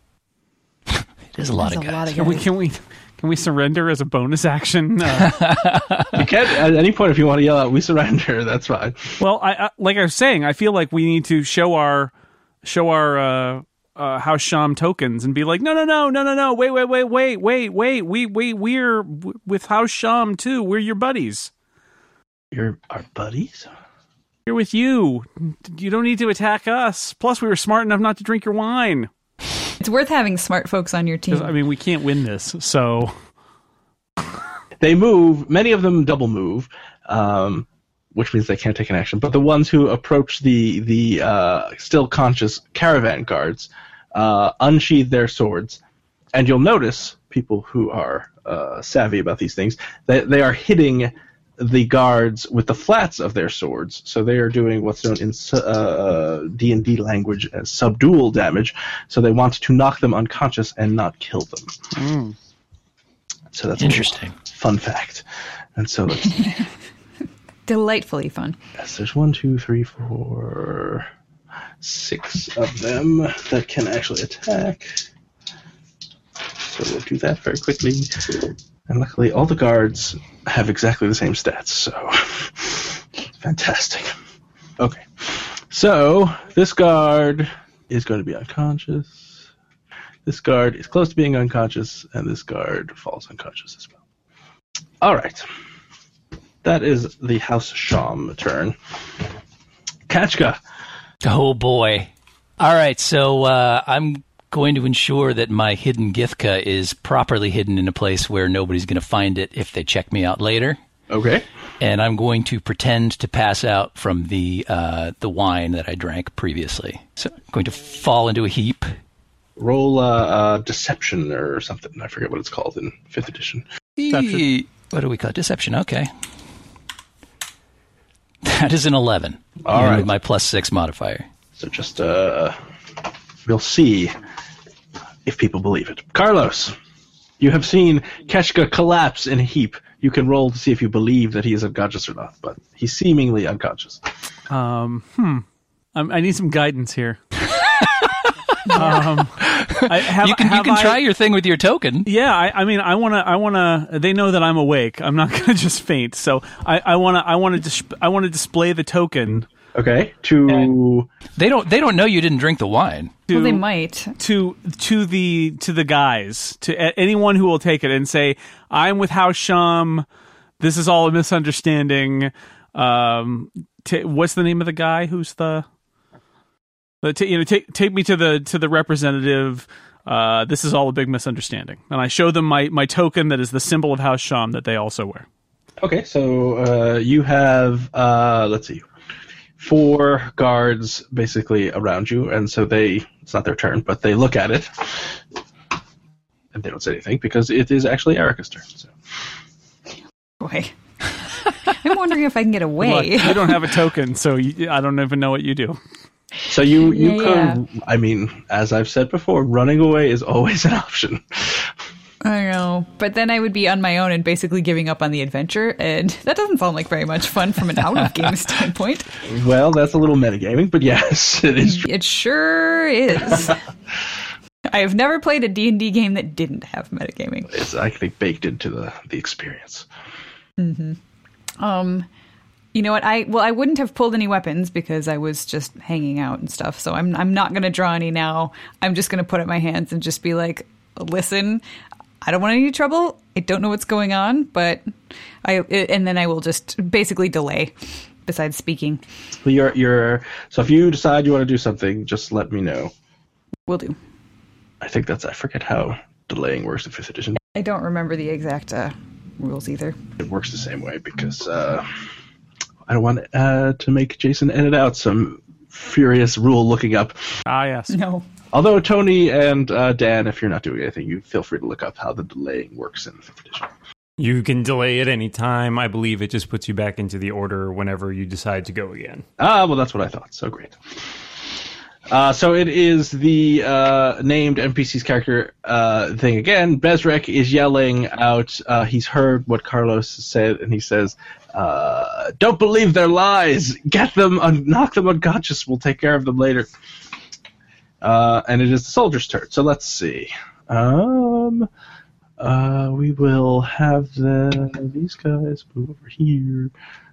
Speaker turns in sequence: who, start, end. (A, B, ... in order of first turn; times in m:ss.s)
0:01.0-0:02.1 A
0:01.5-0:02.5 B
0:02.1-0:05.4 C
0:05.2-0:06.2 A
0:06.1-0:09.2 D
0:09.2-0:12.1 C
0:12.6-0:21.5 C
0:22.5-0:23.7 D
0:24.5-0:29.1 C
0:29.8-0:31.5 B
0:31.3-0:33.1 C
0:34.8-0:45.8 D
0:46.3-1:01.7 D
1:02.0-1:02.4 C
1:03.5-1:05.2 D
1:03.8-1:04.4 A
1:05.8-1:06.6 D
1:07.7-1:08.6 B
1:08.8-1:11.1 D
1:11.8-1:15.0 D
1:16.5-1:24.2 D
1:24.8-1:29.4 D
1:30.3-1:34.0 D
1:35.0-1:35.5 D
1:36.6-1:38.8 D
1:40.1-1:40.6 D
1:41.2-1:50.8 A
1:51.1-1:51.5 D
1:51.8-1:58.9 A
1:59.6-2:03.6 D
2:04.0-2:06.1 A
2:04.1-2:04.4 C
2:08.4-2:11.3 A
2:09.6-2:10.1 D
2:11.6-2:12.6 D
2:13.5-2:14.1 D
2:15.2-2:16.8 D
2:17.4-2:24.0 D
2:24.5-2:25.4 C
2:26.0-2:27.2 C
2:27.8-2:28.1 A
2:28.7-2:31.0 C
2:29.4-2:32.1 A
2:32.0-2:39.5 C
2:39.7-2:41.1 D
2:41.4-2:43.2 A
2:43.3-2:43.6 C
2:43.3-2:44.1 B
2:44.2-2:50.0 C
2:50.6-2:55.7 C
2:57.0-3:05.3 C
3:05.8-3:08.9 D
3:09.6-3:15.2 D
3:16.5-3:18.9 D
3:20.4-3:20.7 B
3:21.3-3:23.6 B
3:22.8-3:25.8 C
3:26.5-3:31.7 D
3:26.8-3:27.6 B
3:32.2-3:39.1 B
3:39.2-3:41.9 D
3:41.6-3:43.6 B
3:43.2-3:43.5 D
3:44.7-3:47.6 B
3:47.5-3:49.9 D
3:50.6-3:51.0 B
3:51.6-3:52.1 B
3:52.7-4:01.6 B
4:02.2-4:04.9 B
4:05.4-4:07.8 B
4:08.3-4:09.0 B
4:09.4-4:12.9 D
4:13.7-4:14.0 B
4:14.8-4:17.4 D
4:17.6-4:20.0 B
4:20.2-4:21.9 D
4:22.9-4:27.3 D
4:27.5-4:28.0 C
4:27.9-4:28.2 B
4:28.5-4:33.7 D
4:34.2-4:39.2 E
4:39.4-4:40.8 D
4:42.1-4:56.7 D
4:58.0-5:01.7 D
5:02.4-5:06.7 D